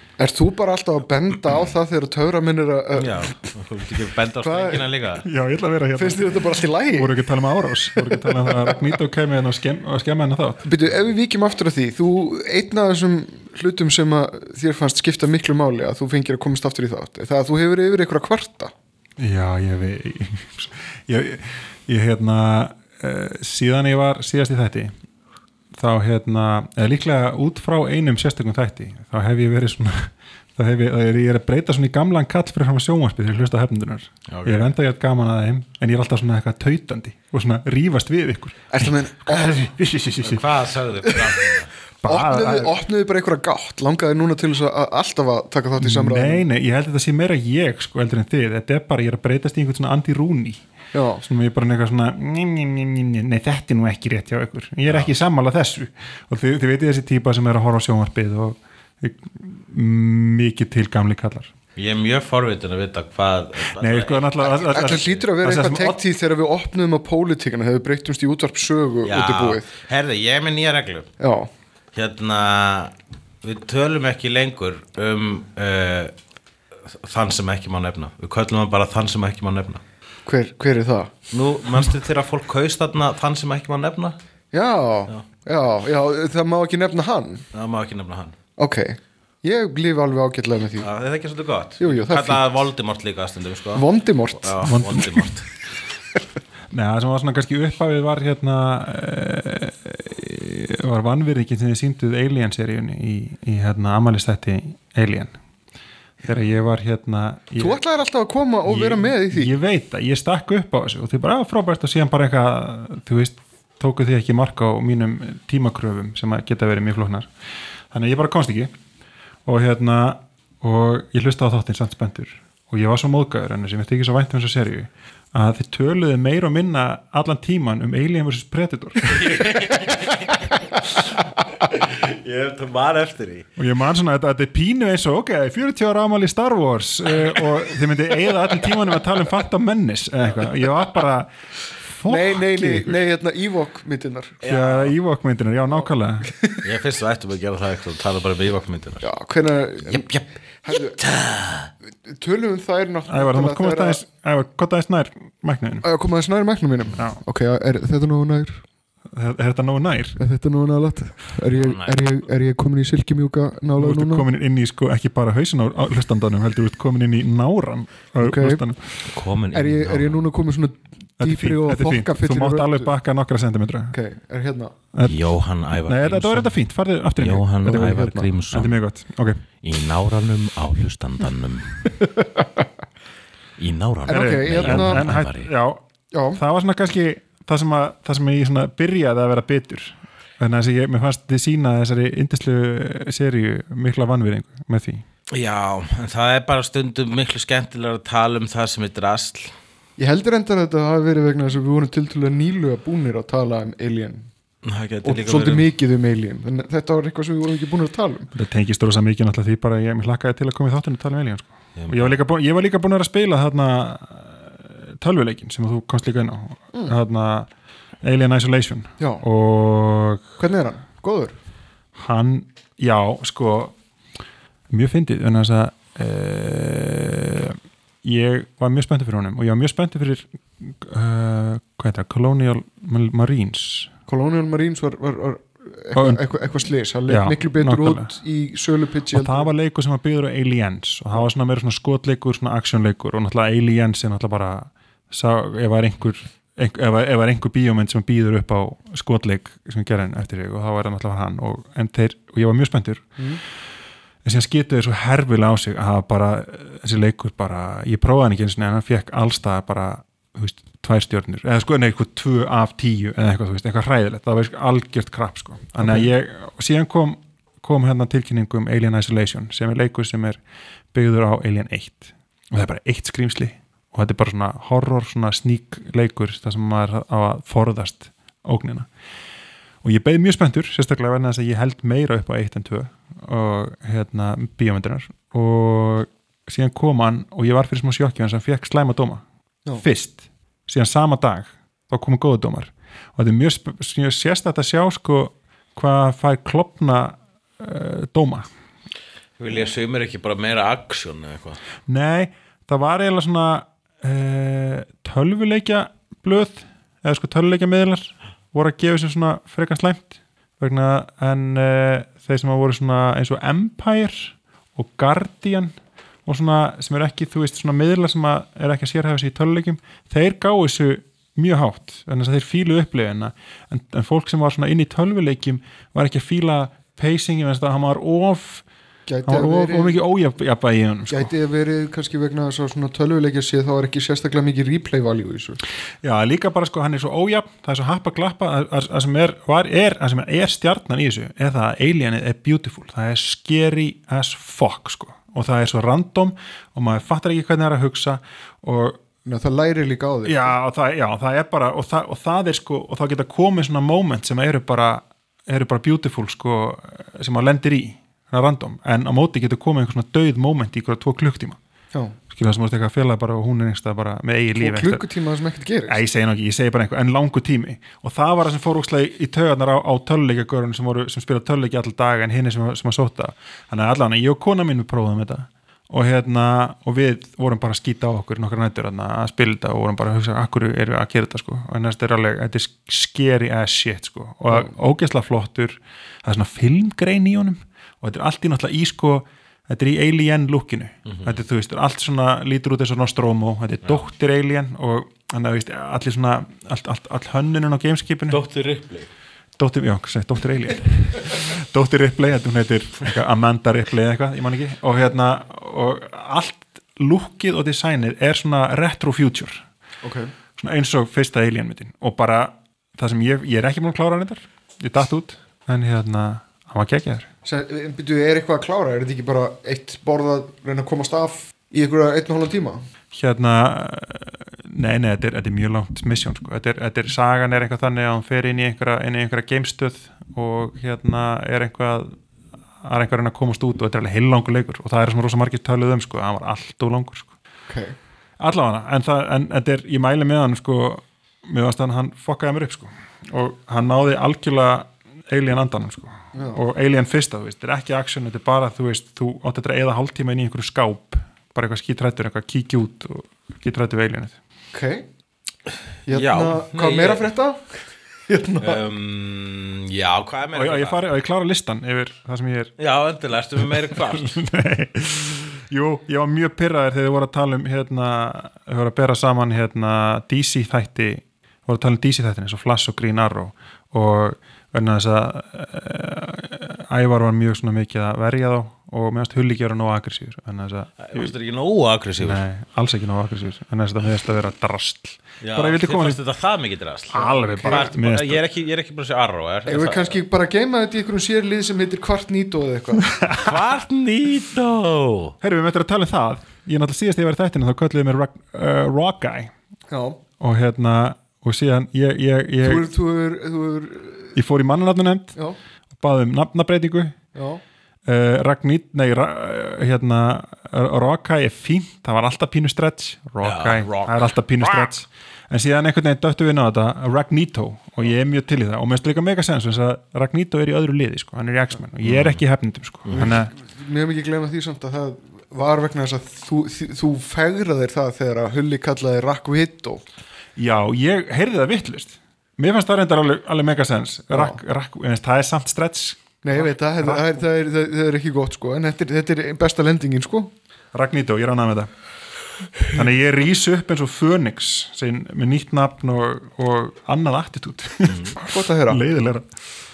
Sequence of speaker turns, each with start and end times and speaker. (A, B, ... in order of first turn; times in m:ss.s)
0:00.2-0:03.5 A
0:03.0-0:05.2 B
0:04.4-0:04.9 A
0:05.2-0:10.6 C
0:06.0-0:08.8 A
0:10.6-0:18.7 A
0:19.2-0:24.9 C
0:25.7-0:40.4 C
0:34.3-0:34.7 B
0:38.7-0:39.7 A
0:40.2-0:41.7 B
0:42.0-0:42.7 C
0:42.0-0:46.4 A
0:45.8-0:50.6 C
0:50.9-0:51.2 A
0:51.2-1:01.5 C
1:01.8-1:05.2 B
1:03.8-1:06.0 C
1:04.4-1:09.7 A
1:09.0-1:11.1 B
1:11.2-1:11.5 A
1:11.9-1:16.1 B
1:16.9-1:19.8 B
1:20.2-1:21.1 A
1:21.3-1:24.2 B
1:24.5-1:27.4 A
1:27.5-1:28.4 B
1:28.6-1:30.9 A
1:30.8-1:33.8 B
1:31.8-1:32.4 A
1:33.8-1:34.6 A
1:34.4-1:35.5 B
1:34.6-1:35.2 C
1:36.7-1:45.4 C
1:46.2-1:47.8 C
1:47.6-1:49.5 A
1:48.7-1:57.3 C
1:57.9-1:58.7 C
1:59.4-2:09.5 C
2:09.1-2:11.0 B
2:11.7-2:13.5 B
2:13.6-2:23.0 C
2:22.1-2:24.4 A
2:24.4-2:24.9 B
2:24.4-2:26.3 C
2:26.2-2:26.6 A
2:26.6-2:29.1 B
2:29.0-2:30.1 A
2:29.8-2:31.7 B
2:30.6-2:31.0 A
2:32.0-2:34.0 A
2:33.1-2:35.8 C
2:35.8-2:38.6 A
2:39.1-2:40.2 C
2:40.2-2:44.3 A
2:41.5-2:42.0 B
2:43.8-2:49.0 C
2:48.2-2:48.6 A
2:49.1-2:50.2 B
2:49.5-2:52.9 A
2:51.2-2:54.0 C
2:53.9-2:54.8 A
2:55.0-2:56.6 B
2:55.9-2:59.4 C
2:57.2-2:58.7 B
2:57.6-2:58.3 A
2:59.6-3:01.9 B
3:02.0-3:02.6 A
3:03.6-3:05.5 B
3:04.1-3:05.1 A
3:04.1-3:05.8 C
3:06.1-3:06.4 A
3:06.4-3:15.0 C
3:15.3-3:19.5 B
3:20.0-3:24.3 A
3:24.6-3:25.7 B
3:25.0-3:28.3 A
3:28.4-3:37.5 C
3:31.8-3:32.2 B
3:38.0-3:40.4 C
3:39.0-3:39.2 A
3:40.4-3:41.4 A
3:42.0-3:43.8 C
3:44.7-3:53.9 C
3:54.1-3:59.5 A
3:55.9-3:56.3 C
3:57.1-3:58.1 C
3:59.1-4:13.2 C
4:14.2-4:30.4 C
4:25.8-4:26.1 A
4:30.9-4:38.9 C
4:39.8-4:58.5 C
4:59.4-5:01.6 B
5:01.9-5:28.6 C
5:29.1-5:30.0 A
5:29.2-5:31.3 C
5:31.1-5:35.6 A
5:36.0-5:49.0 C
5:49.2-5:50.6 A
5:50.2-6:01.6 C
6:02.3-6:05.0 C
6:04.6-6:06.0 A
6:05.9-6:38.4 C
6:24.5-6:24.8 A
6:31.1-6:31.4 B
6:38.3-6:39.1 B
6:39.6-6:49.7 C
6:50.0-6:50.3 A
6:50.6-6:57.3 C
6:57.4-7:02.8 A
7:03.1-7:12.2 C
7:12.8-7:17.3 C
7:17.7-7:18.0 A
7:18.4-7:34.4 C
7:26.3-7:26.6 A
7:34.7-7:35.1 A
7:36.1-7:37.3 B
7:36.1-7:37.7 A
7:38.3-7:38.8 A
7:38.6-7:41.0 B
7:40.5-7:42.8 C
7:42.8-7:44.4 B
7:43.6-8:01.3 C
8:01.0-8:02.4 B
8:02.2-8:06.2 C
8:05.4-8:10.2 B
8:07.1-8:08.4 C
8:07.1-8:07.9 A
8:09.7-8:13.4 A
8:13.4-8:15.4 B
8:15.4-8:19.5 C
8:19.9-8:20.2 A
8:20.4-8:22.9 C
8:22.6-8:24.3 A
8:24.4-8:25.4 C
8:26.0-8:27.2 C
8:27.4-8:27.6 A
8:28.1-8:43.5 C
8:33.4-8:34.9 B
8:42.0-8:42.4 B
8:43.1-8:50.0 A
8:50.6-8:57.4 C
8:54.3-8:54.6 A
8:56.4-9:00.5 A
9:00.9-9:01.9 C
9:02.9-9:09.4 C
9:08.1-9:08.4 B
9:08.4-9:09.0 A